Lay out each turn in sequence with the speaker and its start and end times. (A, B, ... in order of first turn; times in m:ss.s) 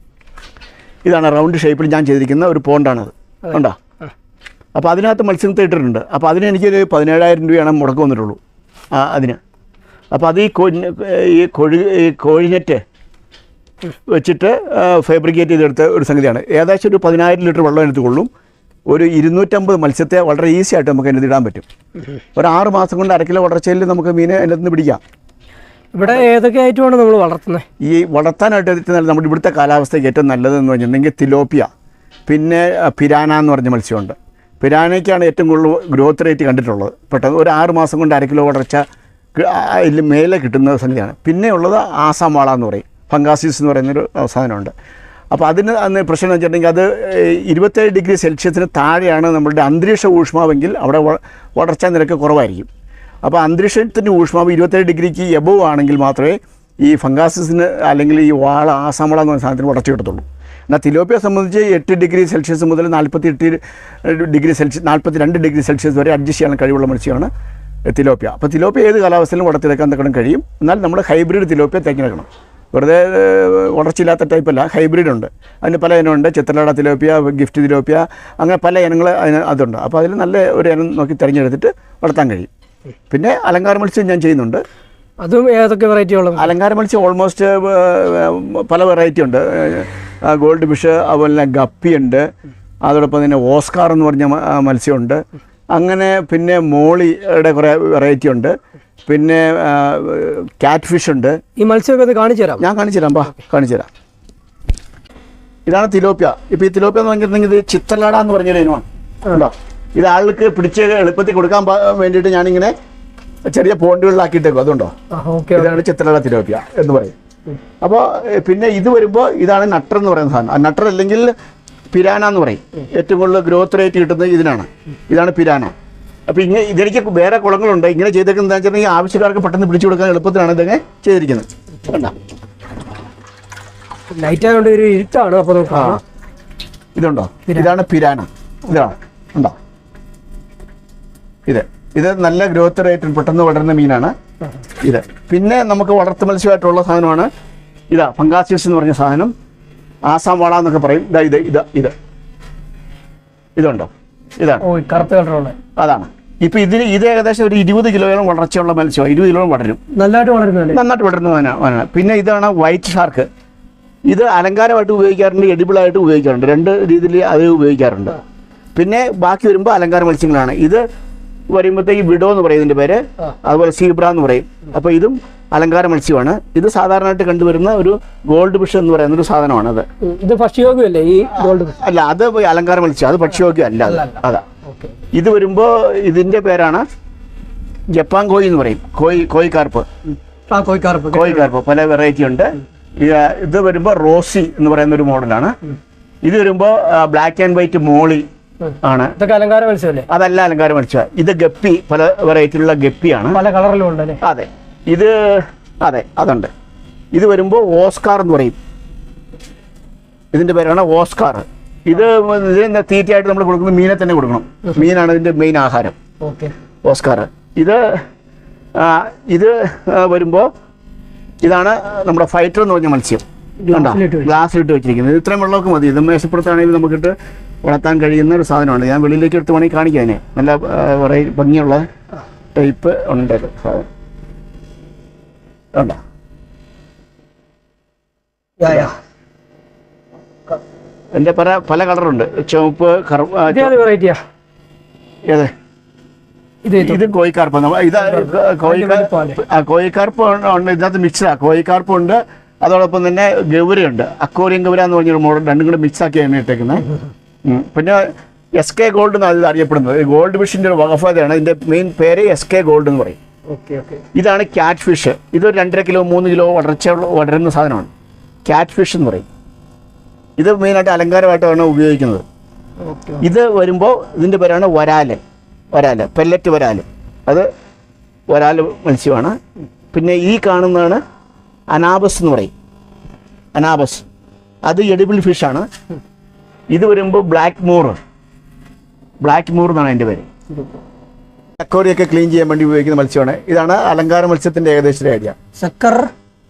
0:01.0-0:03.8 A
0:04.7-0:08.4 A
0:08.9-0:09.4 A
0:10.1-0:12.8 A
0:14.1-0:18.3 A
0:18.9-0:21.6 A
0:22.4-0:25.0 A
0:25.9-0:27.6 B
0:27.8-0:31.7 A
0:32.3-0:38.8 A
0:39.4-0:44.7 A
0:45.3-0:52.7 A
0:53.2-1:07.3 A
1:07.9-1:22.5 A
1:23.1-1:24.6 A
1:25.2-1:26.5 B
1:26.4-1:32.2 A
1:32.9-1:35.2 A
1:35.7-1:38.5 A
1:39.1-1:41.4 A
1:41.6-1:42.6 B
1:42.6-1:43.9 A
1:45.7-1:52.7 A
1:53.4-1:54.9 A
1:55.1-1:55.8 B
1:55.5-1:57.1 A
1:57.8-2:01.3 A
2:01.9-2:05.7 A
2:06.3-2:12.1 A
2:14.1-2:16.0 B
2:15.7-2:16.0 A
2:17.0-2:19.6 A
2:21.5-2:24.1 A
2:24.8-2:27.3 A
2:27.9-2:29.3 A
2:30.1-2:31.9 A
2:33.6-2:34.6 A
2:34.6-2:35.6 B
2:35.8-2:39.8 A
2:39.9-2:40.8 B
2:40.7-2:43.3 A
2:44.1-2:48.2 A
2:48.8-2:50.8 A
2:51.5-2:59.8 A
3:00.0-3:01.8 B
3:01.3-3:04.4 A
3:03.8-3:04.9 B
3:05.1-3:06.8 A
3:07.9-3:09.9 A
3:10.5-3:11.4 B
3:11.1-3:15.5 A
3:16.2-3:18.2 A
3:18.7-3:20.1 B
3:18.8-3:19.2 A
3:20.1-3:23.4 A
3:23.3-3:24.2 B
3:24.2-3:26.5 A
3:27.1-3:28.6 A
3:30.3-3:36.0 A
3:36.2-3:36.5 B
3:36.8-3:38.0 A
3:38.7-3:40.5 A
3:41.4-3:51.8 A
3:43.6-3:44.3 B
3:52.5-3:53.8 A
3:58.6-3:58.9 B
4:01.1-4:03.8 A
4:03.4-4:04.2 B
4:06.6-4:07.0 B
4:06.8-4:16.9 A
4:08.0-4:09.4 B
4:17.4-4:23.2 A
4:23.5-4:24.0 B
4:24.1-4:27.9 A
4:28.4-4:29.2 A
4:30.4-4:32.2 A
4:32.8-4:33.2 B
4:33.2-4:35.2 A
4:35.7-4:37.5 A
4:38.3-4:39.4 A
4:39.9-4:41.0 A
4:41.7-4:42.5 A
4:43.5-4:44.0 A
4:44.6-4:45.6 A
4:46.7-4:48.0 A
4:49.2-4:50.3 A
4:51.6-4:55.3 A
4:55.6-4:56.1 B